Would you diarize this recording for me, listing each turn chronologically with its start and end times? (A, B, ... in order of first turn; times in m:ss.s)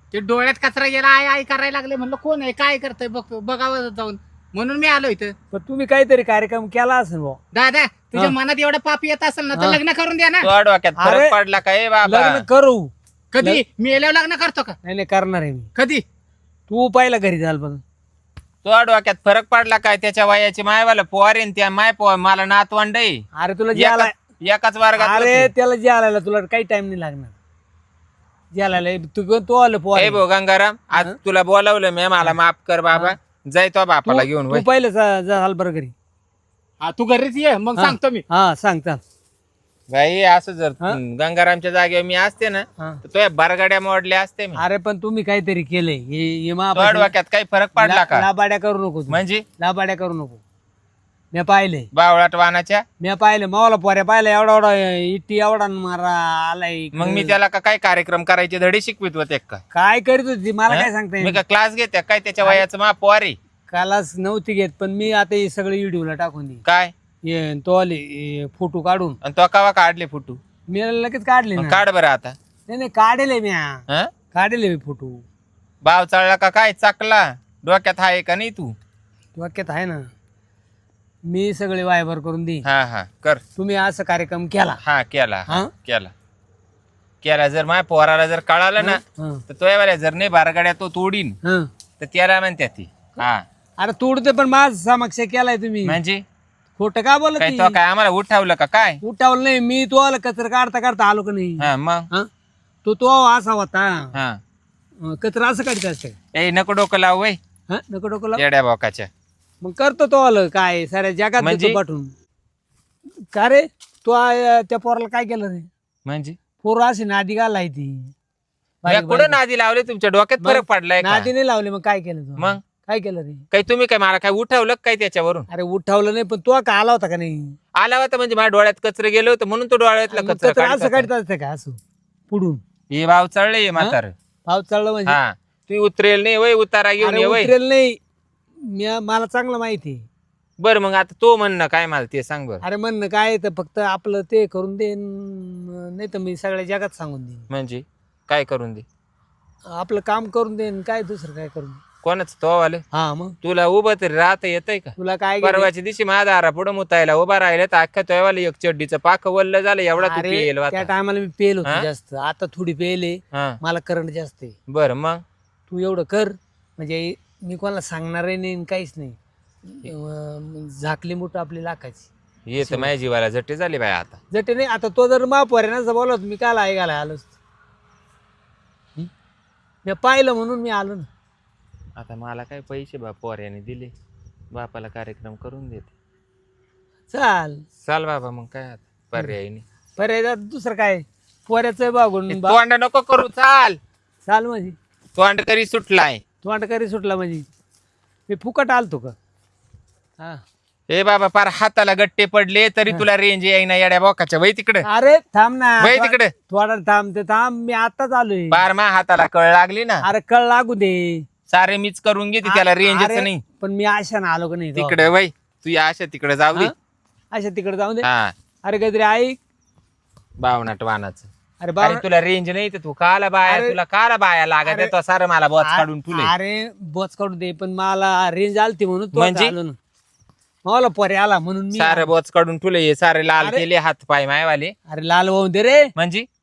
0:00.1-0:05.4 A
0:05.5-0:07.4 B
0:07.5-0:10.5 A
0:09.6-0:09.8 B
0:10.4-0:12.4 C
0:11.0-0:11.3 B
0:12.0-0:12.9 B
0:13.3-0:14.8 A
0:14.8-0:15.7 B
0:15.8-0:16.0 A
0:16.7-0:17.8 B
0:18.6-0:23.2 C
0:23.4-0:24.1 B
0:23.7-0:25.5 C
0:25.0-0:27.4 B
0:28.5-0:30.2 B
0:30.0-0:34.6 C
0:34.0-0:35.9 B
0:36.8-0:38.2 A
0:37.8-0:39.0 B
0:39.9-0:44.6 C
0:44.6-0:47.1 B
0:46.8-0:48.3 C
0:47.8-0:50.4 B
0:49.1-0:49.4 C
0:51.3-0:51.9 B
0:51.9-0:52.8 C
0:53.0-0:57.4 B
0:56.9-0:59.6 C
0:59.7-1:01.4 B
1:00.7-1:03.4 C
1:03.7-1:06.6 B
1:06.6-1:06.9 C
1:07.2-1:09.2 B
1:09.2-1:10.4 C
1:10.7-1:11.8 B
1:11.6-1:12.4 C
1:12.7-1:15.2 B
1:15.8-1:18.8 C
1:19.4-1:20.0 B
1:21.3-1:22.6 B
1:22.6-1:23.4 C
1:23.6-1:24.8 B
1:24.8-1:26.1 C
1:27.2-1:31.4 C
1:28.8-1:29.4 B
1:32.0-1:33.4 C
1:33.8-1:36.0 B
1:35.8-1:36.2 C
1:36.8-1:37.8 B
1:37.4-1:39.0 C
1:39.0-1:42.3 B
1:41.6-1:42.1 C
1:42.8-1:44.1 B
1:44.1-1:44.4 C
1:45.0-1:46.2 B
1:46.3-1:47.4 C
1:47.7-1:48.4 B
1:48.4-1:49.1 C
1:49.6-1:52.1 B
1:51.4-1:51.8 C
1:53.3-1:55.7 B
1:56.1-1:56.4 C
1:56.6-1:58.1 B
1:58.8-1:59.4 B
1:58.9-2:01.3 C
2:00.4-2:03.4 B
2:03.5-2:05.5 C
2:05.5-2:07.5 B
2:07.8-2:11.1 C
2:10.1-2:11.8 B
2:12.3-2:12.6 B
2:12.9-2:14.1 C
2:13.8-2:15.2 B
2:15.1-2:17.5 C
2:17.0-2:18.0 B
2:18.6-2:20.0 B
2:20.6-2:22.6 C
2:22.6-2:27.5 B
2:27.5-2:28.9 C
2:29.7-2:31.8 B
2:32.0-2:32.8 C
2:32.9-2:33.4 B
2:33.4-2:40.9 C
2:35.0-2:35.7 B
2:40.0-2:44.6 B
2:43.3-2:43.6 C
2:44.7-2:45.2 C
2:45.7-2:49.2 B
2:49.8-2:52.1 B
2:52.5-2:54.2 C
2:52.6-2:52.9 B
2:54.3-2:57.3 B
2:59.9-3:01.1 B
3:02.0-3:03.9 C
3:04.5-3:05.9 C
3:07.1-3:07.6 B
3:07.8-3:09.6 C
3:10.0-3:12.6 B
3:12.3-3:13.8 C
3:14.3-3:14.8 B
3:15.2-3:16.2 C
3:16.4-3:17.5 B
3:18.3-3:19.2 B
3:20.9-3:24.9 C
3:24.8-3:28.7 B
3:25.8-3:26.3 C
3:28.5-3:30.1 C
3:30.0-3:31.3 B
3:31.5-3:33.4 C
3:32.4-3:35.1 B
3:34.8-3:36.7 C
3:37.3-3:38.1 B
3:38.0-3:38.3 C
3:38.6-3:39.4 B
3:40.4-3:41.3 C
3:41.6-3:42.0 B
3:41.8-3:46.3 C
3:43.4-3:43.8 B
3:44.6-3:44.9 B
3:45.6-3:49.8 B
3:49.1-3:49.5 C
3:50.6-3:52.1 B
3:51.7-3:54.7 C
3:53.4-3:53.6 B
3:54.9-3:55.9 B
3:56.0-3:56.3 C